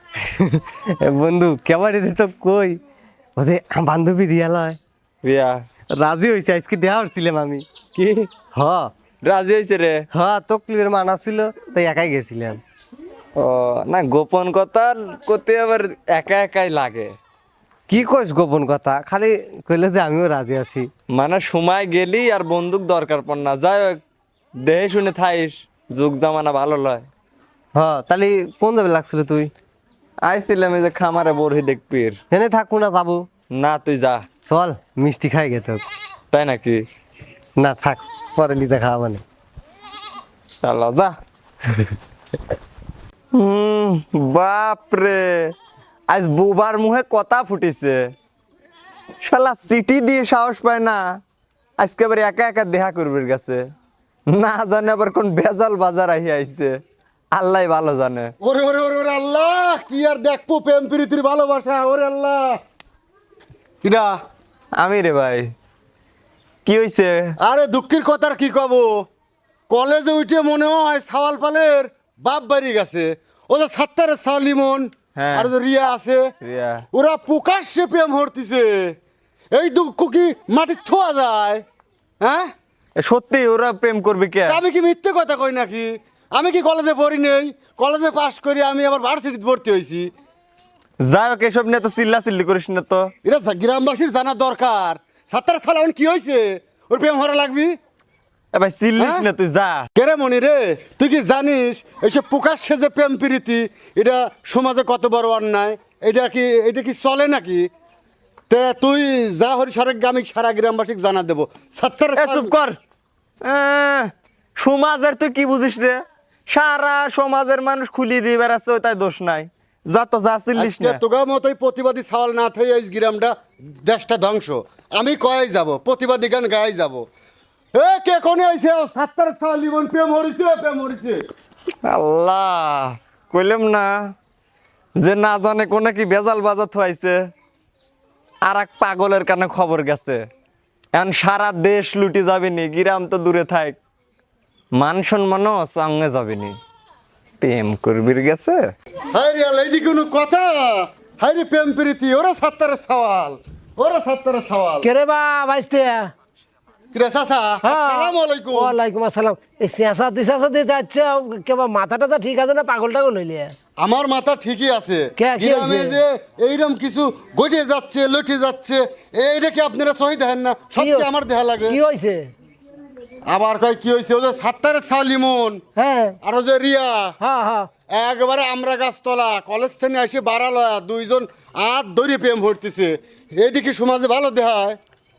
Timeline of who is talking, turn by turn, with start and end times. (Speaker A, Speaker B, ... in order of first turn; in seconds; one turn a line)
Speaker A: 0.2-2.8
Speaker A: 3.4-4.8
Speaker B: 5.2-5.6
Speaker A: 6.0-8.9
Speaker B: 9.2-10.0
Speaker A: 10.1-12.6
Speaker B: 13.4-17.2
Speaker A: 17.9-20.9
Speaker B: 21.1-24.0
Speaker B: 24.6-27.1
Speaker A: 27.8-29.5
Speaker B: 30.2-32.2
Speaker A: 32.3-33.3
Speaker B: 33.5-34.2
Speaker A: 34.5-35.8
Speaker B: 36.3-36.8
Speaker A: 37.6-39.2
Speaker B: 40.6-41.1
Speaker B: 43.4-45.5
Speaker B: 46.1-48.1
Speaker B: 49.2-51.2
Speaker B: 51.8-53.6
Speaker B: 54.3-56.8
Speaker B: 57.3-58.3
Speaker C: 58.4-62.6
Speaker C: 63.8-64.1
Speaker B: 64.8-65.5
Speaker B: 66.7-67.1
Speaker C: 67.4-69.1
Speaker C: 69.7-76.2
Speaker B: 75.2-75.5
Speaker B: 76.4-76.8
Speaker C: 76.9-79.0
Speaker C: 79.5-81.6
Speaker C: 82.2-82.5
Speaker B: 83.0-84.6
Speaker C: 84.5-90.1
Speaker B: 91.0-93.1
Speaker C: 93.2-97.8
Speaker B: 98.5-99.8
Speaker C: 99.0-99.2
Speaker C: 100.0-107.7
Speaker C: 108.5-112.5
Speaker B: 112.2-112.8
Speaker B: 113.4-116.0
Speaker B: 116.5-121.0
Speaker C: 120.6-127.0
Speaker C: 127.8-131.2
Speaker B: 131.9-133.9
Speaker B: 135.0-137.2
Speaker B: 138.4-140.2
Speaker B: 140.9-143.8
Speaker B: 144.8-146.6
Speaker B: 147.4-148.7
Speaker C: 149.1-154.9
Speaker D: 154.8-156.1
Speaker C: 156.9-158.8
Speaker D: 157.6-163.5
Speaker C: 163.8-171.8
Speaker D: 165.2-166.0
Speaker D: 170.8-172.3
Speaker C: 173.3-175.6
Speaker D: 175.8-176.2
Speaker C: 176.2-177.2
Speaker D: 177.2-177.7
Speaker C: 177.9-184.8